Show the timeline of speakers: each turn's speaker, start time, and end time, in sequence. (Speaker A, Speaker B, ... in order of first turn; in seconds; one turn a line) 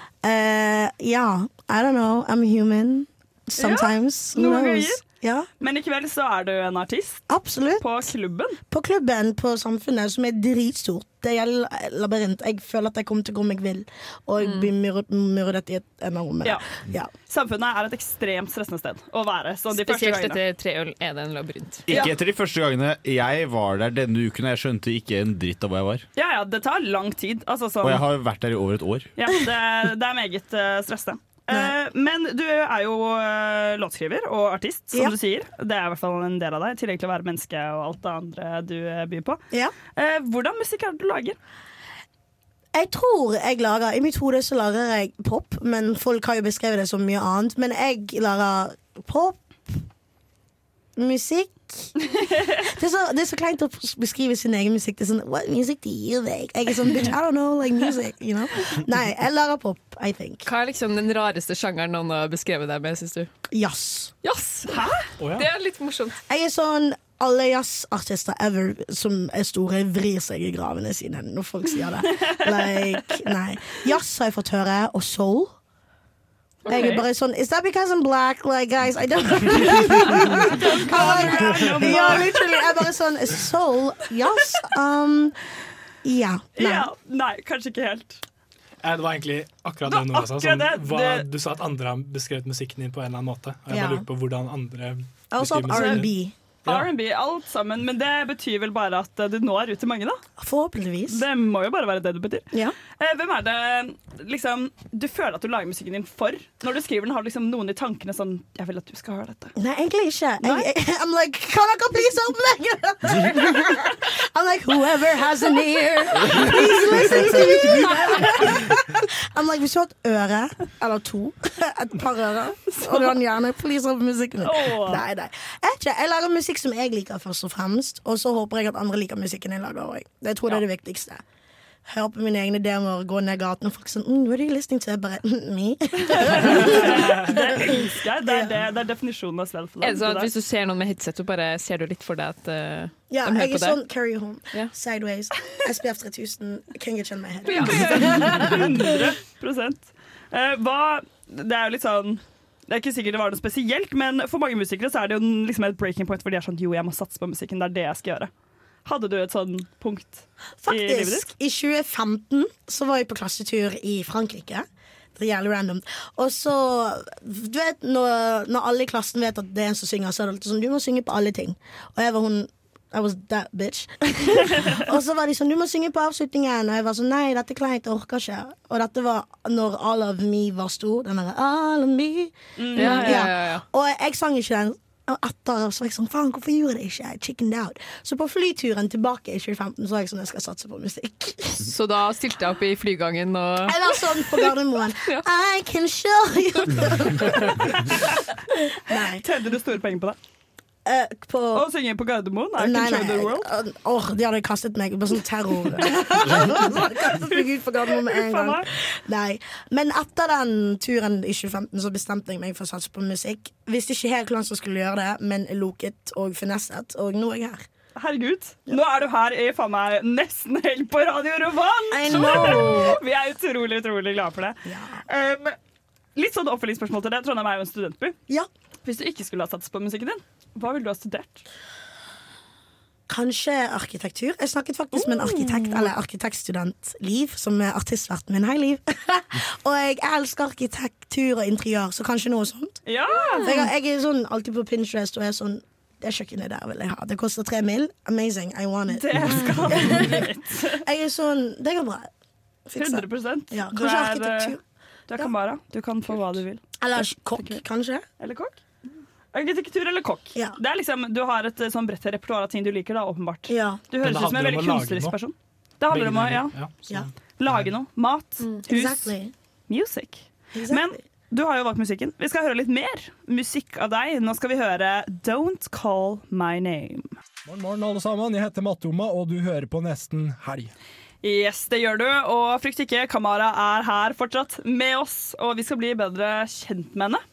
Speaker A: 0.2-5.5
Speaker B: 3.6-5.0
Speaker B: 5.6-7.2
Speaker A: 7.3-8.0
Speaker B: 7.8-8.6
Speaker A: 8.7-17.1
Speaker C: 14.4-14.7
Speaker B: 17.3-20.4
Speaker C: 19.7-21.9
Speaker D: 21.9-26.0
Speaker B: 21.9-22.2
Speaker B: 26.1-28.0
Speaker D: 27.8-29.1
Speaker B: 29.1-41.4
Speaker A: 42.7-49.4
Speaker A: 51.0-52.0
Speaker A: 52.5-60.5
Speaker C: 60.5-63.3
Speaker A: 63.5-64.1
Speaker C: 64.2-66.2
Speaker B: 64.7-65.0
Speaker E: 65.2-65.5
Speaker A: 66.3-75.5
Speaker B: 72.2-72.8
Speaker A: 76.7-85.3
Speaker B: 76.7-77.0
Speaker B: 79.7-82.6
Speaker E: 81.5-81.9
Speaker A: 86.0-86.9
Speaker B: 86.5-88.2
Speaker E: 88.8-96.1
Speaker B: 89.8-91.3
Speaker A: 93.7-94.0
Speaker A: 95.3-96.3
Speaker B: 95.7-96.0
Speaker B: 96.6-100.2
Speaker A: 100.4-101.2
Speaker B: 101.1-109.5
Speaker A: 109.5-131.2
Speaker B: 122.7-123.2
Speaker B: 124.4-125.0
Speaker A: 131.8-138.6
Speaker B: 136.0-140.3
Speaker C: 139.8-143.8
Speaker A: 143.1-149.0
Speaker C: 147.5-148.5
Speaker B: 147.5-158.3
Speaker B: 158.8-161.3
Speaker A: 160.6-191.7
Speaker B: 182.6-183.3
Speaker C: 182.7-183.6
Speaker C: 191.6-193.8
Speaker A: 193.7-197.9
Speaker A: 198.7-199.2
Speaker B: 198.9-200.2
Speaker A: 200.8-201.7
Speaker B: 201.5-203.5
Speaker A: 202.6-217.7
Speaker B: 206.2-208.7
Speaker B: 217.9-224.6
Speaker A: 221.9-223.0
Speaker A: 224.6-225.1
Speaker B: 225.1-225.5
Speaker B: 226.2-228.2
Speaker B: 228.8-231.4
Speaker A: 233.1-242.8
Speaker B: 235.0-235.7
Speaker B: 242.8-243.5
Speaker C: 243.2-243.5
Speaker A: 243.4-250.3
Speaker B: 248.9-250.8
Speaker A: 250.8-252.1
Speaker A: 252.7-254.6
Speaker B: 252.8-254.6
Speaker B: 255.1-256.7
Speaker A: 256.8-258.0
Speaker B: 257.4-257.6
Speaker B: 258.2-258.6
Speaker B: 259.3-266.5
Speaker A: 263.5-263.8
Speaker E: 264.0-265.1
Speaker E: 265.9-267.6
Speaker B: 267.4-269.1
Speaker A: 268.7-269.3
Speaker B: 269.7-277.1
Speaker A: 270.5-271.0
Speaker F: 277.4-280.7
Speaker B: 281.2-287.2